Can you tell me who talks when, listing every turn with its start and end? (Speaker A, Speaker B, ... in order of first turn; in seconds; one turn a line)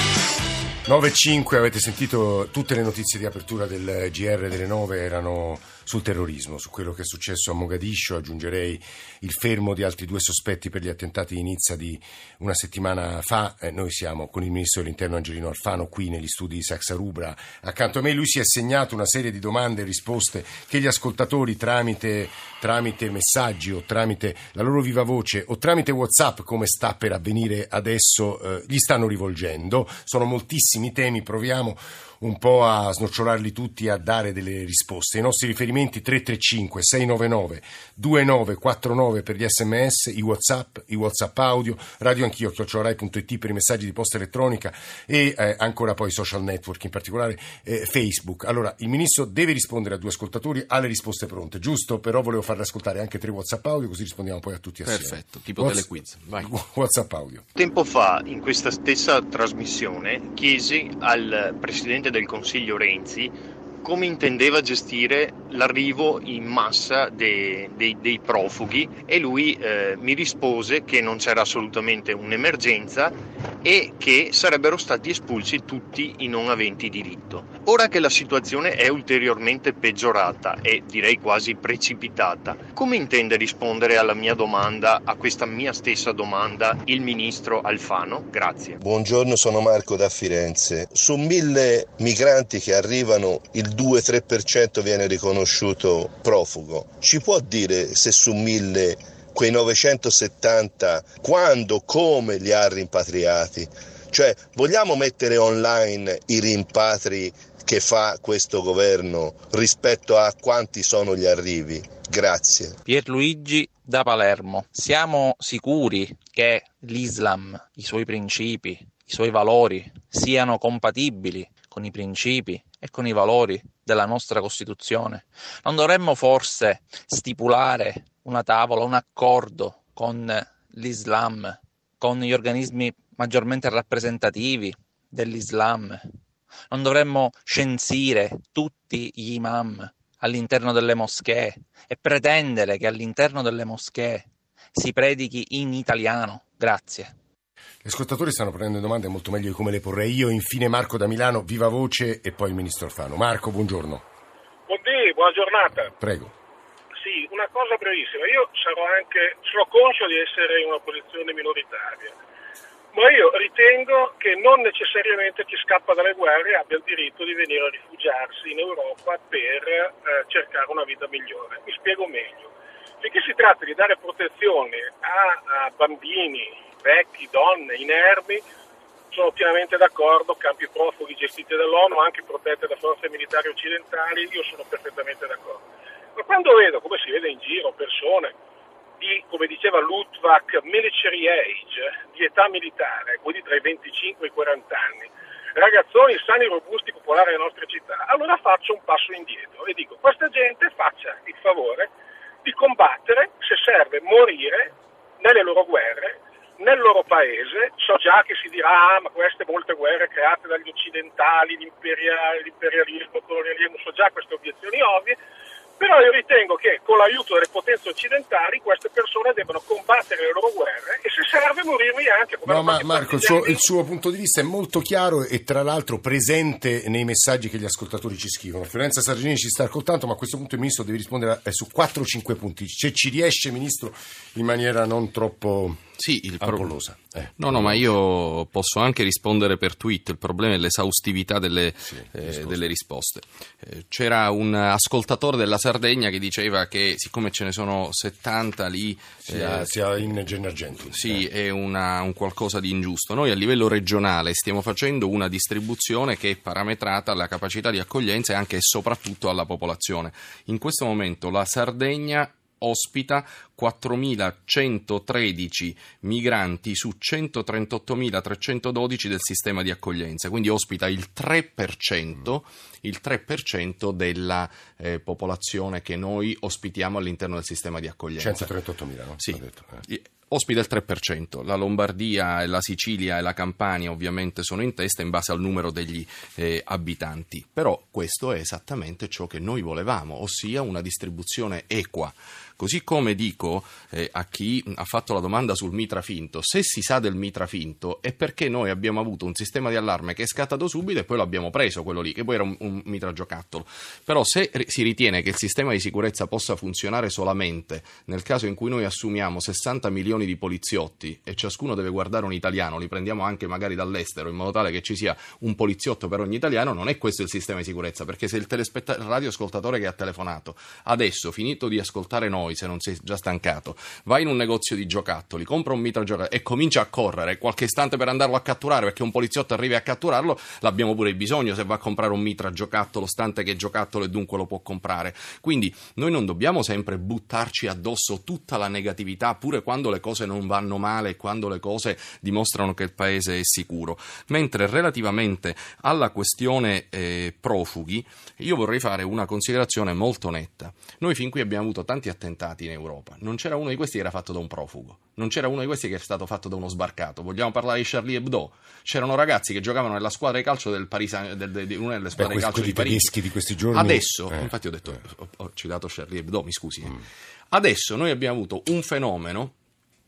Speaker A: 0.8-55.9
Speaker B: 54.8-56.5
Speaker A: 56.4-57.4
Speaker C: 57.6-88.8
Speaker D: 88.8-112.8
Speaker E: 112.9-136.1
Speaker E: 136.7-147.1
Speaker A: 147.8-154.1
Speaker F: 154.7-155.9
Speaker A: 156.0-156.3
Speaker F: 157.0-162.1
Speaker F: 162.9-178.4
Speaker F: 179.1-185.6
Speaker F: 186.2-188.3
Speaker F: 189.0-201.9
Speaker F: 202.4-215.2
Speaker F: 215.8-223.6
Speaker A: 222.4-235.8
Speaker B: 236.0-236.8
Speaker A: 236.4-237.8
Speaker B: 237.4-249.8
Speaker A: 241.9-242.6
Speaker A: 249.2-251.2
Speaker B: 250.9-278.5
Speaker A: 278.2-279.8
Speaker B: 279.2-363.1
Speaker A: 362.1-364.5
Speaker B: 363.7-369.5